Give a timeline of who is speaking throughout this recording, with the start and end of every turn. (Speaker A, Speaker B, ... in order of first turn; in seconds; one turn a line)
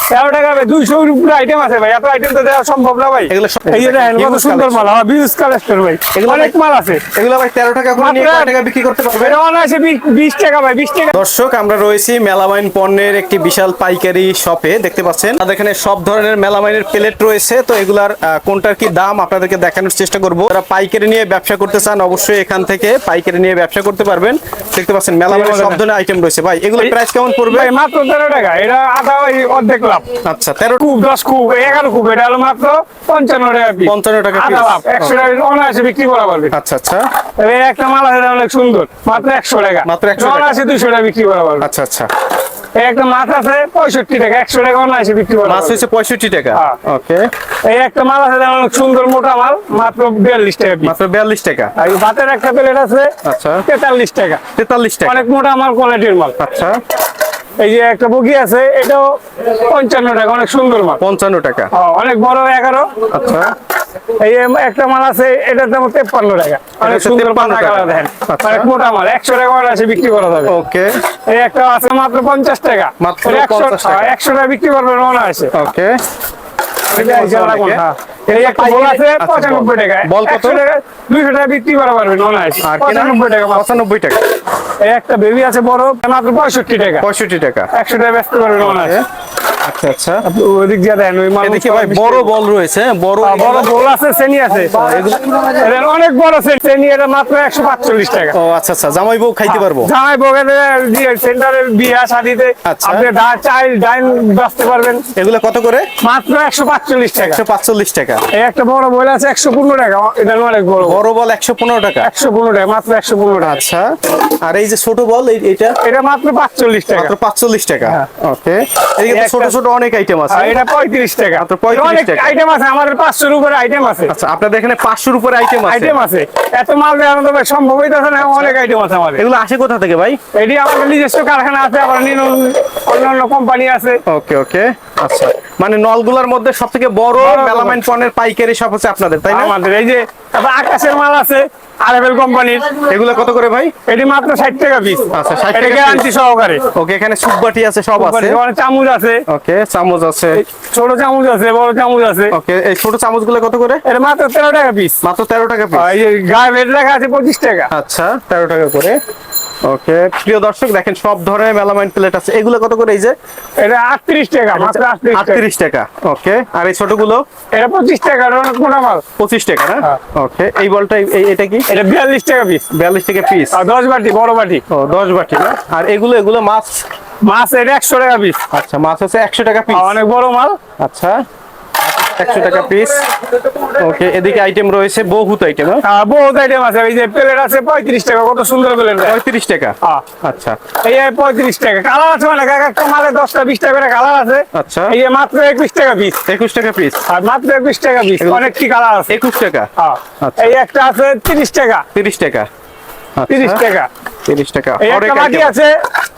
Speaker A: 0.1-7.0
Speaker B: 3.3-4.9
Speaker B: 6.1-6.5
Speaker B: 7.1-9.4
Speaker A: 8.0-8.6
Speaker A: 9.2-11.2
Speaker B: 11.1-27.7
Speaker A: 25.3-25.8
Speaker A: 27.5-30.1
Speaker B: 30.2-30.9
Speaker A: 30.8-36.5
Speaker B: 33.8-35.3
Speaker B: 36.5-37.0
Speaker A: 37.4-41.7
Speaker B: 39.8-40.6
Speaker B: 41.6-42.1
Speaker A: 42.8-45.8
Speaker B: 45.4-47.2
Speaker A: 47.6-50.9
Speaker B: 50.8-51.7
Speaker A: 51.8-53.1
Speaker B: 53.2-53.6
Speaker A: 53.6-54.4
Speaker B: 54.5-55.2
Speaker A: 55.0-56.4
Speaker B: 56.4-56.8
Speaker A: 57.6-61.0
Speaker B: 61.0-61.7
Speaker A: 61.7-63.1
Speaker B: 63.1-63.5
Speaker A: 64.1-70.5
Speaker B: 66.8-68.7
Speaker B: 70.5-70.9
Speaker A: 71.3-75.5
Speaker B: 73.0-74.1
Speaker B: 75.5-76.0
Speaker A: 76.9-83.7
Speaker B: 76.9-80.6
Speaker B: 82.6-84.2
Speaker A: 84.8-87.0
Speaker B: 87.0-87.7
Speaker A: 87.7-89.0
Speaker B: 88.6-89.0
Speaker B: 89.6-90.2
Speaker A: 90.2-92.3
Speaker B: 91.4-93.8
Speaker A: 93.2-98.3
Speaker B: 94.7-95.5
Speaker B: 98.3-99.9
Speaker A: 99.5-105.1
Speaker B: 102.7-103.1
Speaker B: 105.1-105.9
Speaker A: 106.0-107.4
Speaker B: 107.2-108.2
Speaker A: 108.3-111.0
Speaker B: 110.8-112.1
Speaker A: 112.0-113.6
Speaker B: 113.4-115.8
Speaker A: 115.8-117.1
Speaker B: 116.9-120.6
Speaker A: 119.0-119.5
Speaker A: 120.3-124.1
Speaker B: 121.4-122.3
Speaker B: 124.1-126.0
Speaker A: 125.7-129.2
Speaker B: 128.2-128.5
Speaker B: 129.2-130.2
Speaker A: 130.3-134.0
Speaker B: 134.1-139.5
Speaker A: 137.2-137.8
Speaker A: 139.3-142.8
Speaker B: 142.8-143.7
Speaker A: 143.9-146.6
Speaker B: 145.1-146.1
Speaker B: 146.7-148.4
Speaker A: 148.0-149.2
Speaker B: 149.3-150.4
Speaker A: 150.3-152.3
Speaker B: 152.3-153.8
Speaker A: 153.8-155.0
Speaker B: 155.0-155.9
Speaker A: 155.7-157.7
Speaker B: 157.7-158.9
Speaker B: 159.6-163.1
Speaker A: 163.6-165.4
Speaker B: 164.5-167.2
Speaker A: 167.5-169.0
Speaker B: 169.2-171.7
Speaker A: 171.7-172.7
Speaker B: 172.7-173.6
Speaker A: 173.5-174.6
Speaker B: 174.7-176.8
Speaker A: 177.2-178.4
Speaker B: 178.5-180.0
Speaker A: 179.7-180.6
Speaker B: 180.8-181.2
Speaker B: 181.8-183.1
Speaker B: 183.7-185.8
Speaker A: 185.8-189.2
Speaker B: 189.0-190.6
Speaker A: 190.8-196.2
Speaker B: 194.5-194.9
Speaker B: 196.2-197.0
Speaker A: 197.1-199.2
Speaker B: 198.2-198.5
Speaker B: 199.1-199.7
Speaker A: 199.8-201.9
Speaker B: 200.2-200.5
Speaker B: 201.9-202.5
Speaker B: 203.2-203.6
Speaker A: 203.3-203.9
Speaker B: 204.2-205.6
Speaker A: 204.8-205.8